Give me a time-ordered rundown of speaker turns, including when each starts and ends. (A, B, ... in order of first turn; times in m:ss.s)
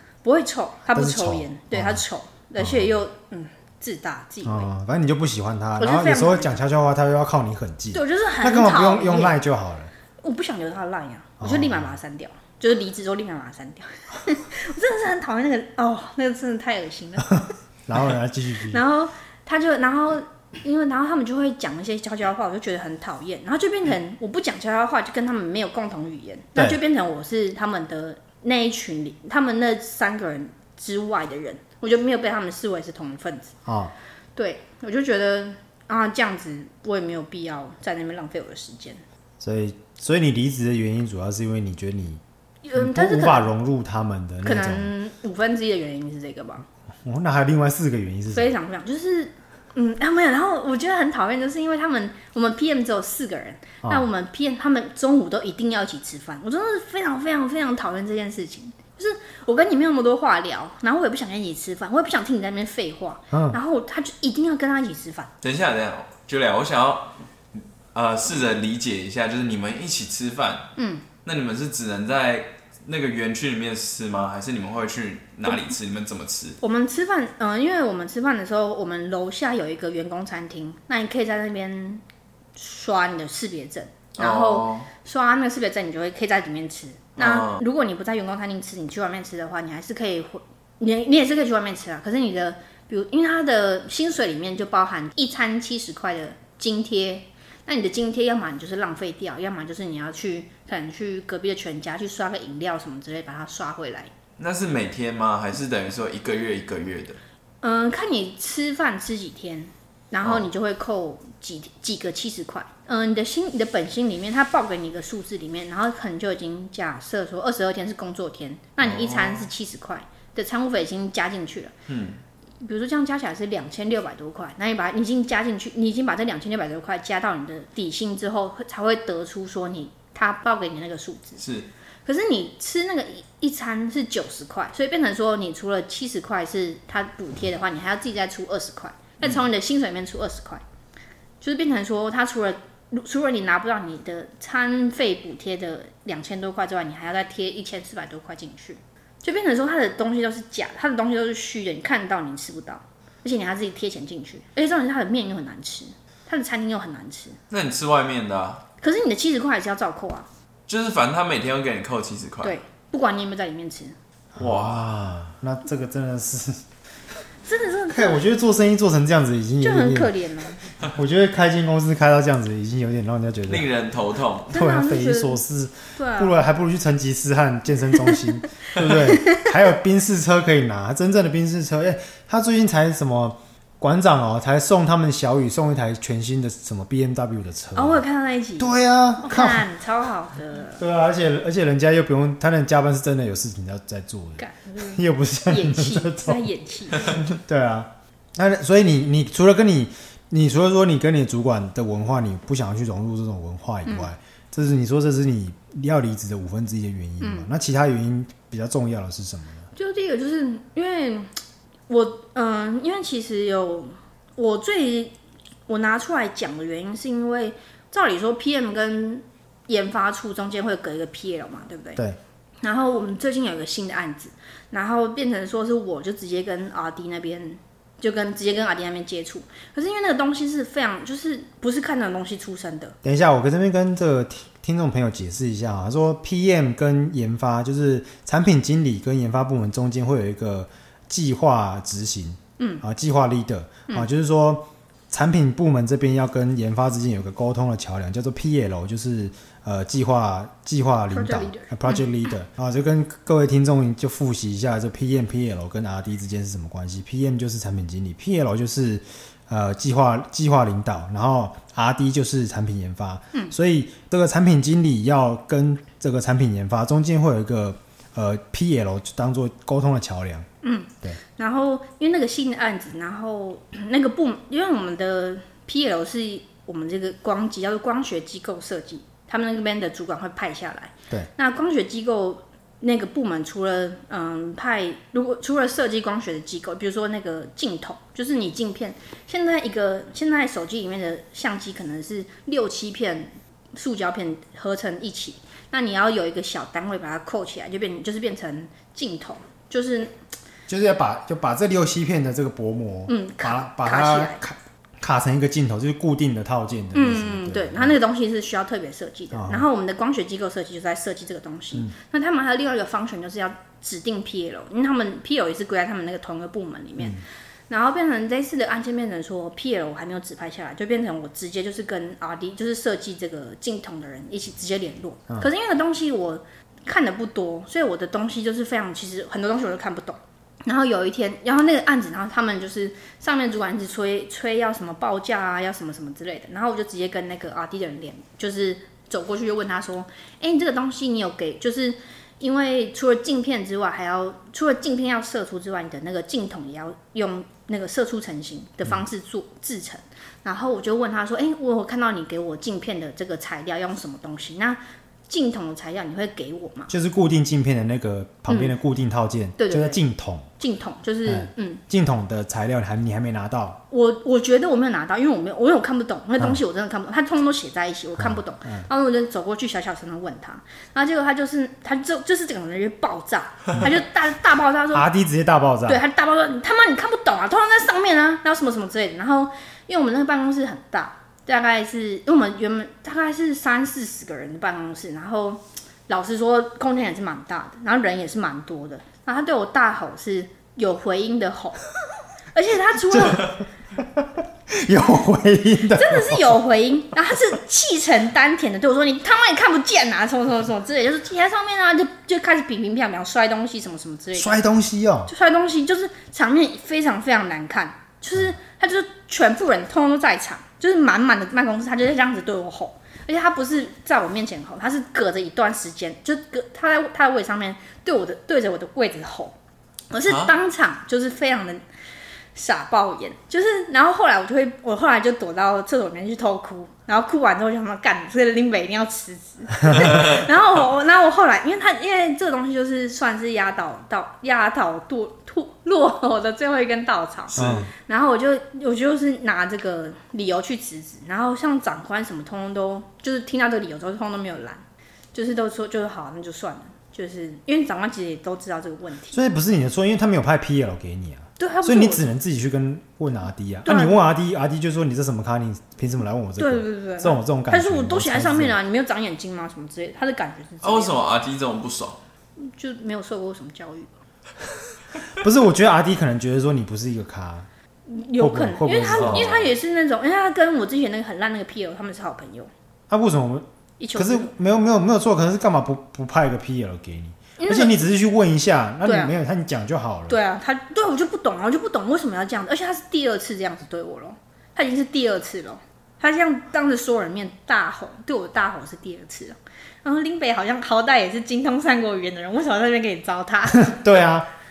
0:00.2-0:04.7 A
0:00.9-0:02.0 B
0:02.6-0:03.0 B
0:04.4-0:09.9 B
0:05.8-0:06.6 A
0:07.9-0:09.4 A
0:10.2-0:17.4 A
0:11.4-0:11.9 B
0:17.9-0:18.8 B
0:18.7-0:33.5 A
0:33.6-0:33.9 B
0:34.4-0:39.0 A
0:39.4-0:42.2 B
0:42.6-0:43.5 A
0:42.8-0:44.9 B
0:44.4-0:46.7 A
0:47.0-0:48.5 B
0:48.3-1:05.3 A
1:03.3-1:03.6 B
1:05.4-1:07.1 C
1:07.9-1:10.7 C
1:10.8-1:11.0 A
1:11.2-1:16.6 C
1:16.6-1:22.0 A
1:22.6-1:44.1 A
1:24.2-1:24.9 C
1:27.2-1:27.6 C
1:44.4-1:47.2 C
1:47.6-2:01.7 A
1:58.8-1:59.5 C
2:01.9-2:02.2 C
2:02.6-2:11.4 A
2:11.4-2:11.7 C
2:12.0-2:20.6 A
2:21.4-2:37.4 A
2:37.5-2:38.6 C
2:38.8-2:40.3 A
2:40.7-2:42.5 C
2:42.4-2:44.0 A
2:44.4-2:46.6 B
2:44.4-2:44.8 C
2:47.4-2:48.2 A
2:47.9-2:50.2 B
2:49.6-2:50.6 A
2:50.8-2:53.7 B
2:53.5-2:54.6 C
2:54.5-3:08.0 B
2:54.5-2:55.4 A
2:56.0-2:56.4 A
2:59.0-2:59.5 A
3:07.7-3:10.8 A
3:08.6-3:09.7 B
3:10.8-3:16.4 B
3:14.4-3:17.2 A
3:17.1-3:29.7 B
3:27.2-3:27.5 A
3:29.7-3:31.3 A
3:31.9-3:35.2 A
3:35.7-3:42.0 A
3:42.6-3:52.9 A
3:53.0-4:30.5 B
4:11.1-4:12.1 A
4:30.6-5:00.1 A
5:00.7-5:08.0 B
5:03.1-5:04.4 A
5:06.9-5:56.9 A
5:09.3-5:09.7 B
5:56.9-6:00.5 B
5:58.5-5:58.7 A
5:59.6-6:00.0 A
6:00.6-6:01.8 A
6:01.2-6:03.8 B
6:03.9-6:15.0 A
6:08.2-6:08.9 B
6:14.9-6:16.0 B
6:15.9-6:31.8 A
6:32.5-6:33.5 A
6:33.1-6:36.6 B
6:35.9-6:44.6 A
6:44.4-6:45.3 B
6:45.3-6:59.6 A
7:00.1-7:01.8 A
7:02.5-7:24.8 A
7:17.5-7:17.8 C
7:17.5-7:17.9 B
7:25.3-7:29.4 A
7:29.3-7:38.8 B
7:31.6-7:32.3 A
7:33.8-7:34.2 A
7:36.6-7:41.2 A
7:40.8-7:42.2 C
7:42.6-7:44.1 A
7:45.4-7:47.7 B
7:48.1-7:52.7 A
7:48.4-7:49.8 B
7:49.1-7:49.5 C
7:53.1-8:00.4 B
7:54.0-7:54.5 A
7:57.6-7:58.0 A
7:59.0-7:59.3 A
8:00.3-8:14.0 A
8:13.7-8:14.5 B